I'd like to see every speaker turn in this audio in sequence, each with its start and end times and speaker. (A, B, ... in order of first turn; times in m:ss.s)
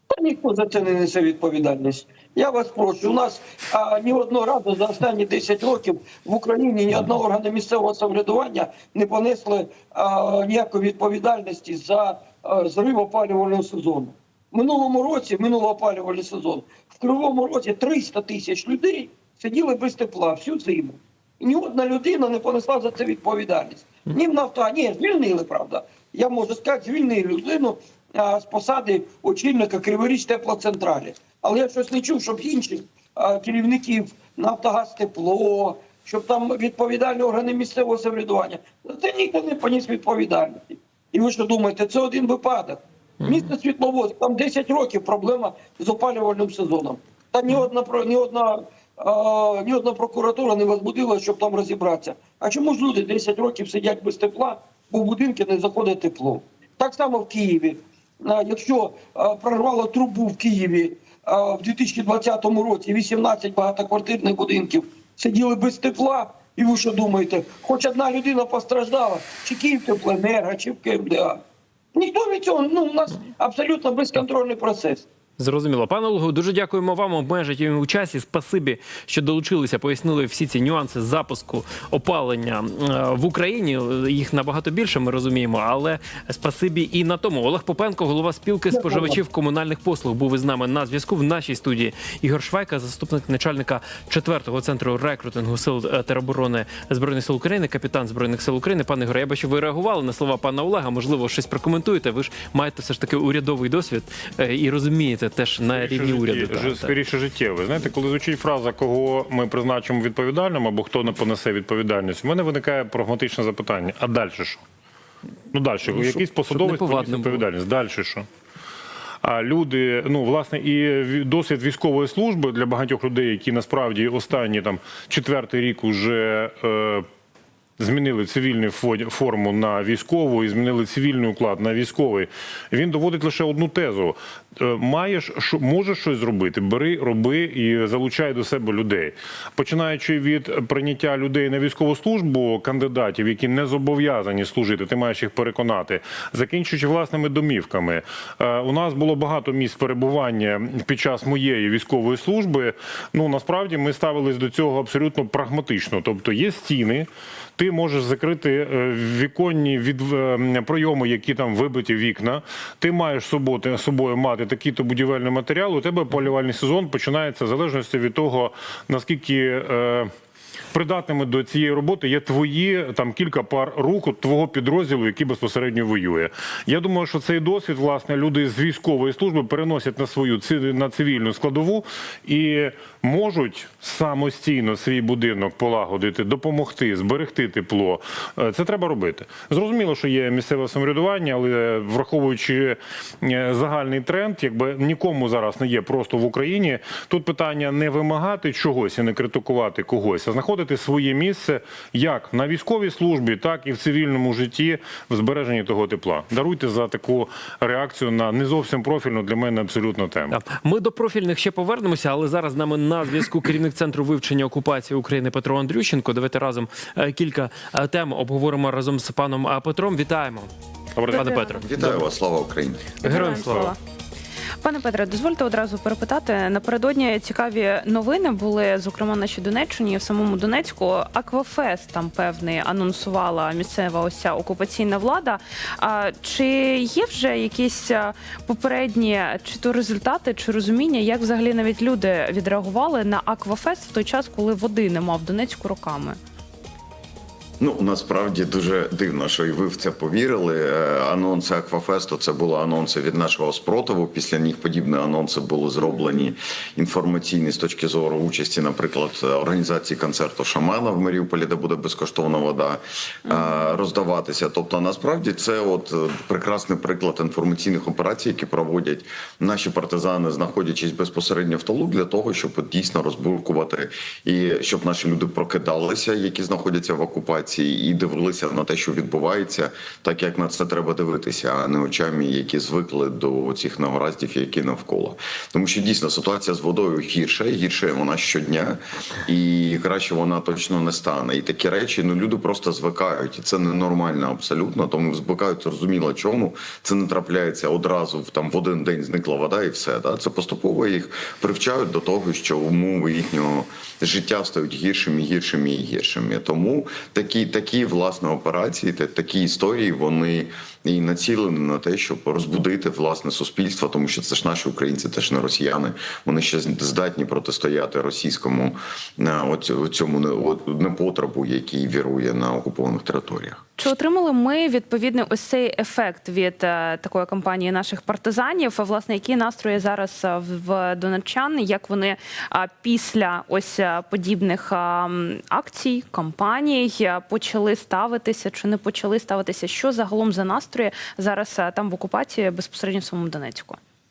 0:00.1-1:11.4 A
0:43.2-0:43.5 B
1:11.9-1:15.0 A
1:15.4-1:47.0 B
1:28.7-1:29.2 A
1:45.7-1:54.6 C
1:55.5-1:58.2 C
1:55.9-1:57.4 B
1:59.2-2:07.0 C
2:07.8-2:50.1 C
2:50.7-3:30.4 C
3:30.3-3:40.5 B
3:41.0-3:42.0 C
3:41.1-3:42.0 B
3:41.6-3:42.9 D
3:43.0-3:43.7 E
3:43.0-3:43.7 B
3:43.4-3:43.7 C
3:44.6-4:06.2 E
4:07.6-5:23.6 D
5:23.8-5:43.8 E